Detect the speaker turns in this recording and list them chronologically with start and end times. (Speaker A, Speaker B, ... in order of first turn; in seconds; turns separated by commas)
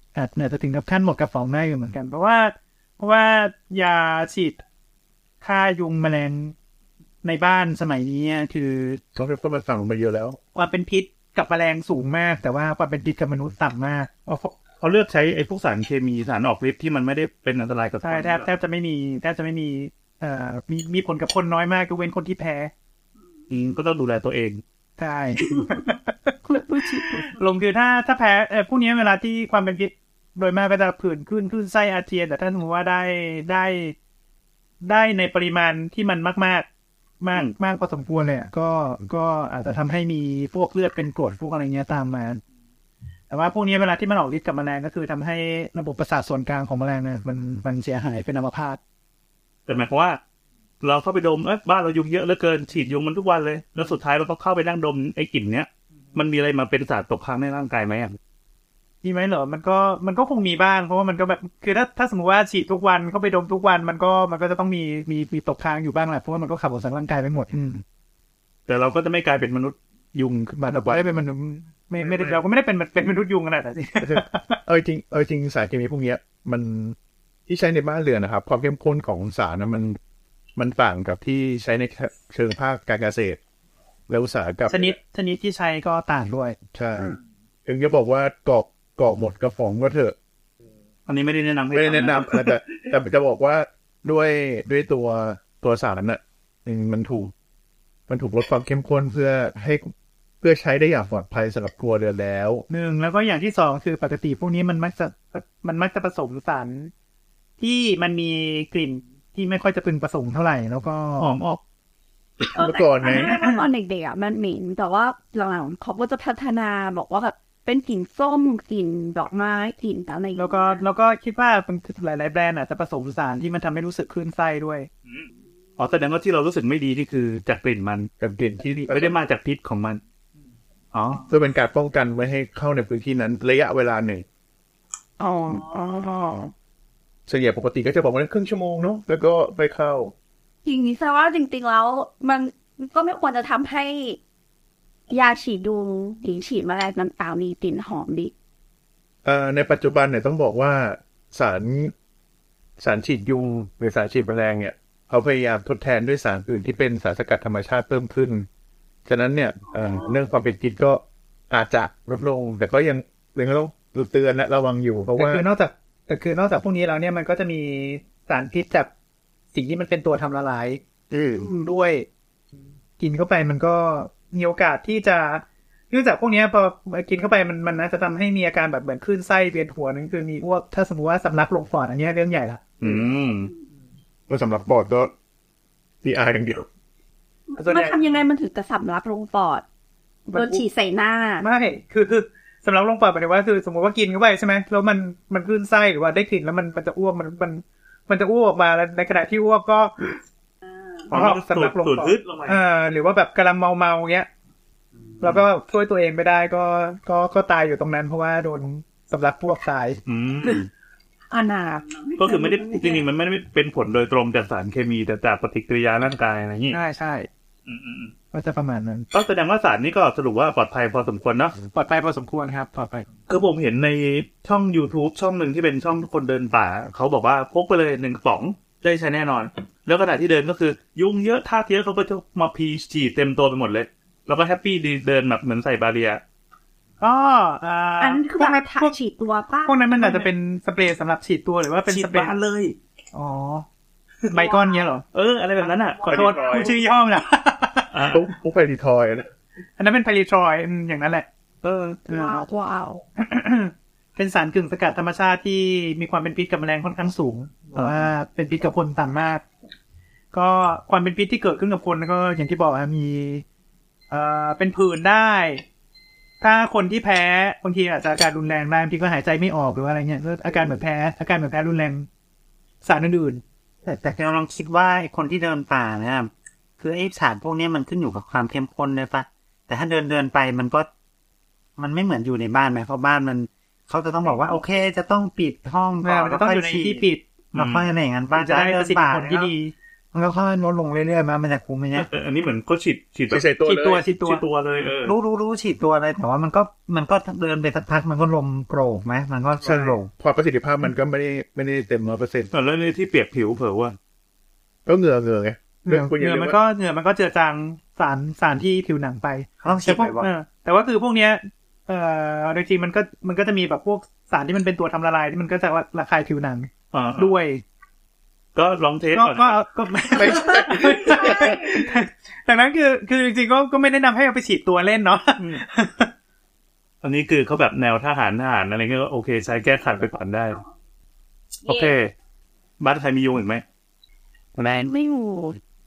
Speaker A: 0.1-4.6, Speaker A: 5.4-6.5, Speaker A: 7.2-9.0, Speaker B: 9.1-10.4, Speaker A: 10.5-14.1, Speaker C: 14.3-18.5, Speaker A: 18.0-22.7, Speaker C: 23.5-24.6, Speaker A: 25.0-33.9, Speaker D: 26.5-27.0, Speaker A: 34.8-36.7, Speaker A: 37.2-42.4, Speaker A: 43.3-48.8, Speaker C: 49.7-50.2, Speaker C: 50.8-58.2, Speaker A: 59.0-67.8, Speaker C: 68.7-71.0, Speaker A: 70.6-74.6, Speaker B: 74.0-77.0, Speaker B: 77.5-80.0, Speaker B: 80.5-83.4, Speaker B: 84.1-84.9, Speaker A: 84.7-86.6, Speaker B: 86.7-90.1, Speaker C: 91.0-92.5, Speaker B: 91.7-97.3, Speaker B: 98.1-102.6, Speaker A: 102.7-106.9, Speaker A: 107.6-111.3, Speaker C: 111.2-111.6, Speaker B: 112.5-113.4, Speaker D: 112.5-120.8, Speaker A: 113.1-113.6, Speaker A: 120.3-124.9, Speaker C: 125.8-128.1, Speaker B: 128.2-129.2, Speaker C: 128.9-130.0, Speaker C: 130.9-131.2, Speaker B: 131.2-134.2, Speaker D: 135.2-136.5, Speaker B: 137.3-140.1, Speaker D: 140.6-144.2, Speaker D: 145.1-148.3, Speaker B: 149.2-151.9, Speaker B: 152.8-158.5, Speaker B: 159.1-165.4, Speaker A: 165.1-168.9, Speaker A: 169.5-170.8, Speaker E: 171.1-171.4, Speaker A: 171.3-172.1, Speaker A: 173.0-182.6, Speaker C: 182.8-183.5, Speaker B: 184.3-185.1, Speaker B: 186.0-186.7, Speaker D: 187.5-189.6, Speaker A: 187.6-187.9, Speaker D: 190.3-191.4, Speaker A: 190.3-190.7, Speaker A: 191.4-200.1, Speaker C: 201.1-202.6, Speaker A: 201.1-204.3, Speaker A: 205.2-210.0, Speaker C: 210.1-210.7, Speaker D: 211.3-213.0, Speaker C: 212.2-216.8, Speaker A: 216.7-217.3, Speaker C: 217.7-218.1, Speaker A: 218.3-219.1, Speaker C: 219.1-221.5, Speaker A: 221.7-223.1, Speaker C: 223.3-236.2, Speaker A: 237.0-238.9, Speaker D: 238.0-239.9, Speaker A: 239.6-242.3, Speaker C: 241.9-242.8, Speaker A: 243.1-243.7, Speaker A: 244.2-245.0, Speaker C: 245.1-246.7, Speaker A: 246.1-248.0, Speaker B: 246.1-246.6, Speaker C: 247.9-248.2, Speaker B: 248.1-249.3, Speaker A: 249.8-251.3, Speaker C: 251.6-252.0, Speaker D: 252.1-253.0, Speaker A: 252.1-252.4, Speaker A: 253.2-259.4, Speaker A: 260.3-263.4, Speaker A: 264.1-265.6, Speaker A: 266.4-272.1, Speaker A: 272.8-273.4, Speaker E: 273.8-280.9, Speaker E: 281.8-287.0, Speaker A: 286.0-287.2, Speaker C: 287.5-287.9, Speaker E: 287.6-289.5, Speaker A: 288.4-289.7, Speaker E: 290.1-292.1, Speaker C: 291.9-293.5, Speaker B: 293.3-294.0, Speaker A: 293.6-294.4, Speaker C: 294.1-295.1, Speaker E: 295.0-300.1, Speaker B: 299.6-302.5, Speaker C: 302.5-303.9, Speaker B: 304.9-306.6, Speaker A: 305.8-317.6, Speaker E: 309.6-310.3, Speaker C: 316.9-317.3, Speaker C: 318.5-319.5, Speaker A: 319.1-326.1, Speaker B: 320.4-320.7, Speaker C: 325.4-325.6, Speaker C: 327.0-330.6, Speaker C: 331.6-332.1, Speaker C: 332.8-333.6, Speaker D: 334.8-335.6